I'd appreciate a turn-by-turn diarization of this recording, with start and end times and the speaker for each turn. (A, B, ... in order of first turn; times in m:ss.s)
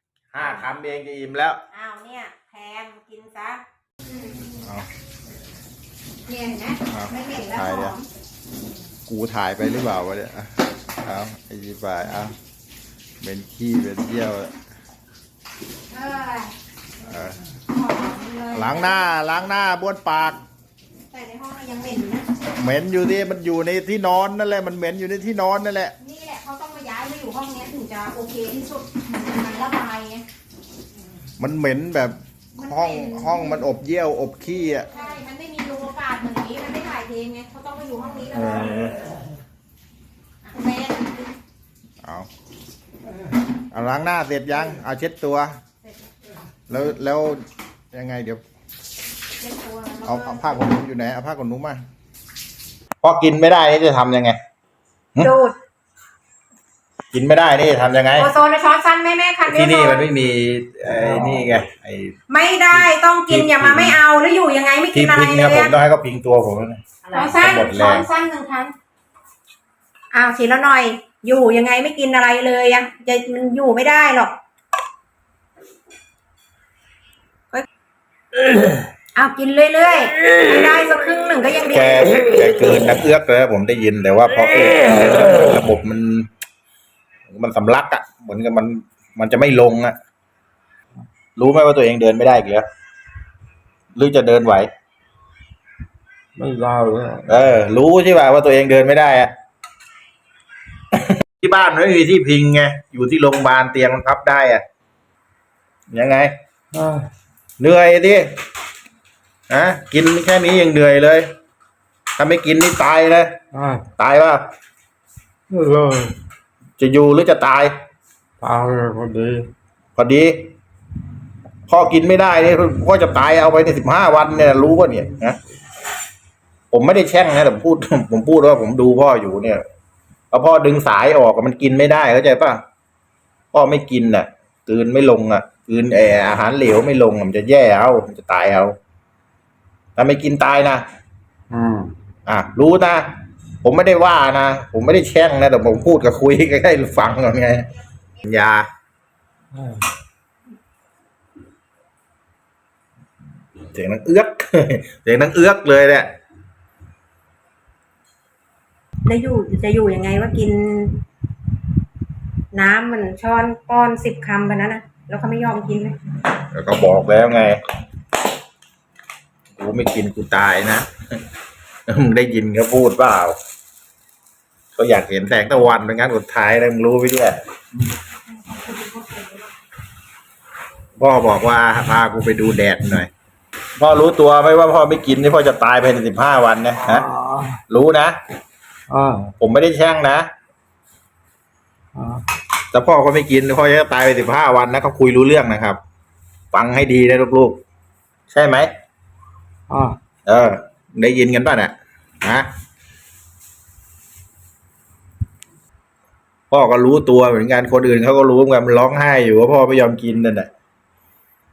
0:00.3-0:01.6 A
0:01.7-0:04.5 B
0:04.5-0:04.9 A
0:06.3-0:08.1 B
0:06.9-0:08.0 A
0:09.1-0:12.4 A
0:13.2-0:14.6 A
0:15.9-0:16.5 B
0:17.0-0:17.4 A
0:17.7-0:19.1 B
0:18.5-0:20.4 A
0:21.1-0:22.3 B
0:22.6-0:26.0 A
0:26.0-0:30.3 B
0:31.4-0:34.9 A
0:32.6-0:33.6 B
0:34.9-0:39.0 B
0:38.3-0:39.0 A
0:40.4-0:41.3 B
0:42.0-0:42.3 A
0:43.7-0:45.6 A
0:46.7-0:48.4 A
0:49.4-0:50.7 B
0:50.0-0:51.8 A
0:53.0-0:54.4 A
0:55.2-0:55.6 B
0:57.1-0:58.3 A
0:58.2-1:00.0 B
0:59.5-1:02.2 A
1:00.9-1:01.5 C
1:02.3-1:05.7 B
1:02.7-1:04.0 A
1:04.9-1:08.1 A
1:07.1-1:08.7 B
1:10.1-1:14.4 B
1:19.2-1:22.0 B
1:21.7-1:26.3 A
1:27.3-1:30.0 A
1:31.4-1:32.7 A
1:34.0-1:34.7 A
1:36.4-1:37.4 C
1:37.3-1:39.3 A
1:40.9-1:44.6 A
1:45.9-1:46.3 A
1:46.7-1:47.1 C
1:47.6-1:48.3 A
1:49.5-1:51.3 A
1:52.2-1:53.4 A
1:53.5-1:53.9 C
1:54.0-1:54.4 A
1:55.5-1:56.2 C
1:56.8-1:57.7 A
1:58.4-1:59.5 C
2:00.0-2:00.5 A
2:01.7-2:05.4 A
2:06.7-2:09.6 A
2:10.3-2:12.6 A
2:13.5-2:18.8 A
2:20.0-2:20.8 A
2:21.5-2:21.9 C
2:22.3-2:23.1 A
2:23.6-2:27.7 A
2:28.2-2:28.7 A
2:29.5-2:29.9 C
2:33.7-2:36.1 A
2:39.0-2:41.0 B
2:42.5-2:46.0 B
2:46.4-2:47.6 A
2:49.6-2:51.2 A
2:51.9-2:53.4 A
2:54.8-2:57.4 A
2:58.5-2:59.2 B
3:01.0-3:03.1 A
3:03.8-3:07.1 A
3:06.8-3:07.6 C
3:07.7-3:08.2 A
3:08.9-3:09.4 C
3:09.4-3:10.3 A
3:12.0-3:12.2 C
3:12.7-3:15.8 A
3:16.5-3:17.6 A
3:18.3-3:18.7 A
3:19.7-3:20.0 C
3:20.3-3:22.5 A
3:26.5-3:30.5 A